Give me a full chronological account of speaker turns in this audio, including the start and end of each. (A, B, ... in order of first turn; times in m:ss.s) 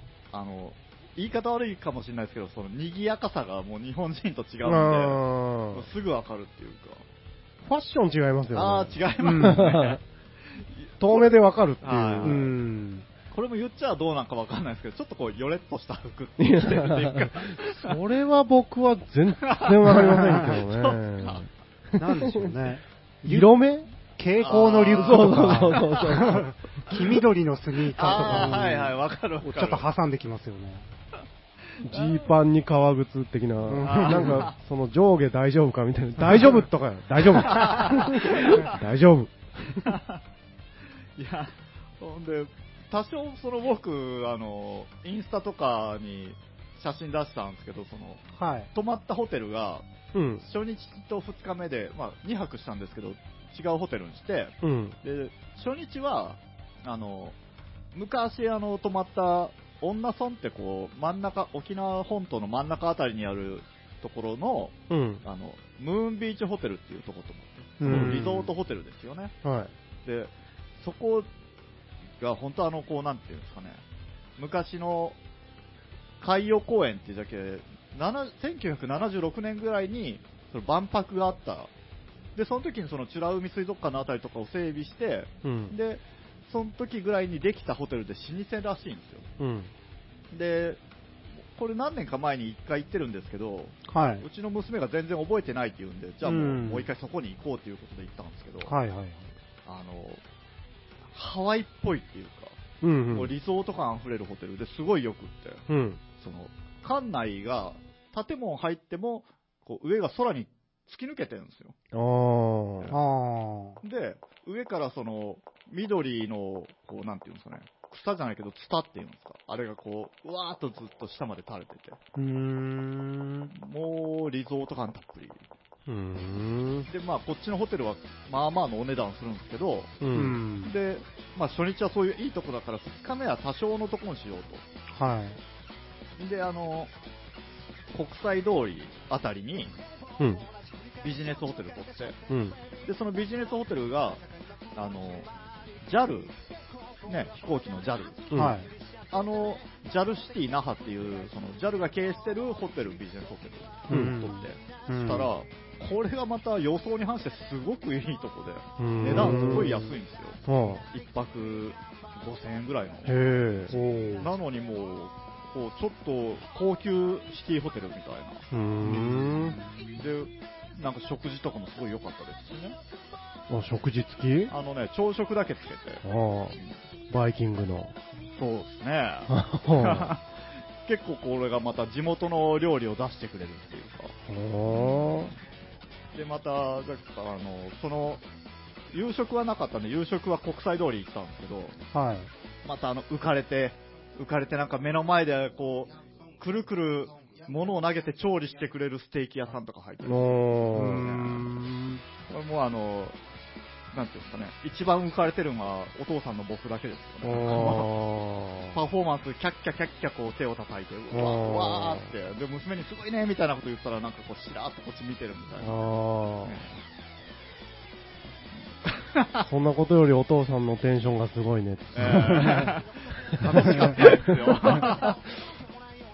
0:00.3-0:07.0 A
0:04.6-0:05.8 B
0:07.6-0:10.0 B
0:08.5-0:10.0 A
0:09.2-0:09.7 C
0:10.6-0:12.4 A
0:11.0-0:12.5 B
0:12.2-0:13.0 C
0:13.3-0:18.0 A
0:16.4-0:22.5 B
0:19.4-0:21.4 A
0:22.0-0:30.8 C
0:23.2-0:23.9 B
0:24.4-0:26.1 A
0:25.0-0:26.5 B
0:27.9-0:29.9 A
0:28.2-0:28.6 B
0:31.8-0:32.3 A
0:31.8-0:39.9 B
0:33.7-0:34.4 C
0:33.8-0:34.5 A
0:37.4-0:38.8 A
0:39.8-0:40.2 A
0:41.2-0:48.2 A
0:48.4-0:48.7 C
0:48.7-0:49.8 A
0:50.1-0:50.4 B
0:50.4-0:57.3 A
0:54.6-0:55.0 B
0:57.9-1:09.3 A
1:04.9-1:05.2 B
1:07.8-1:08.5 C
1:07.8-1:08.4 B
1:09.4-1:09.7 B
1:10.0-1:11.3 A
1:12.2-1:13.8 A
1:14.4-1:15.2 A
1:16.2-1:21.7 A
1:22.4-1:29.3 A
1:25.4-1:25.7 B
1:29.4-1:29.7 B
1:30.3-1:30.8 A
1:31.5-1:38.7 A
1:33.9-1:34.2 C
1:36.2-1:36.9 C
1:38.6-1:39.3 C
1:39.6-1:40.2 A
1:41.1-1:42.6 A
1:42.8-1:43.3 B
1:43.1-1:45.6 A
1:45.7-1:46.0 B
1:46.2-1:51.7 A
1:51.9-1:52.9 B
1:52.9-1:53.8 C
1:53.8-2:02.0 A
2:02.2-2:03.5 C
2:03.5-2:05.4 A
2:05.9-2:06.9 B
2:06.9-2:10.0 A
2:10.0-2:10.4 B
2:10.1-2:10.7 C
2:10.6-2:14.6 A
2:15.0-2:15.4 C
2:16.2-2:16.9 A
2:17.9-2:19.7 A
2:20.2-2:20.4 B
2:21.0-2:22.2 A
2:22.3-2:22.6 B
2:22.8-2:24.2 A
2:24.7-2:25.3 A
2:25.8-2:26.3 A
2:27.1-2:28.4 A
2:28.3-2:28.6 B
2:28.3-2:28.7 C
2:29.1-2:43.2 A
2:33.9-2:35.3 C
2:33.9-2:34.2 B
2:38.8-2:39.9 B
2:39.1-2:39.9 C
2:40.4-2:40.8 B
2:43.0-2:43.7 B
2:43.7-2:44.3 C
2:44.2-2:48.4 A
2:48.5-2:49.6 B
2:48.8-2:50.0 C
2:50.0-2:52.8 A
2:53.5-2:54.5 B
2:54.5-2:56.0 A
2:56.0-2:56.6 B
2:57.1-2:57.9 B
2:58.4-3:04.1 A
2:59.3-3:00.1 B
3:04.3-3:05.3 B
3:04.7-3:05.3 A
3:06.1-3:08.2 A
3:08.9-3:11.8 A
3:11.9-3:12.3 C
3:12.6-3:21.5 A
3:20.0-3:21.7 B
3:20.7-3:21.6 C
3:22.3-3:23.2 A
3:23.9-3:27.9 A
3:27.2-3:28.8 B
3:28.7-3:35.8 A
3:31.1-3:32.1 B
3:35.6-3:36.5 B
3:36.4-3:36.8 A
3:38.8-3:39.5 A
3:39.4-3:42.7 B
3:41.9-3:45.2 A
3:43.4-3:44.8 B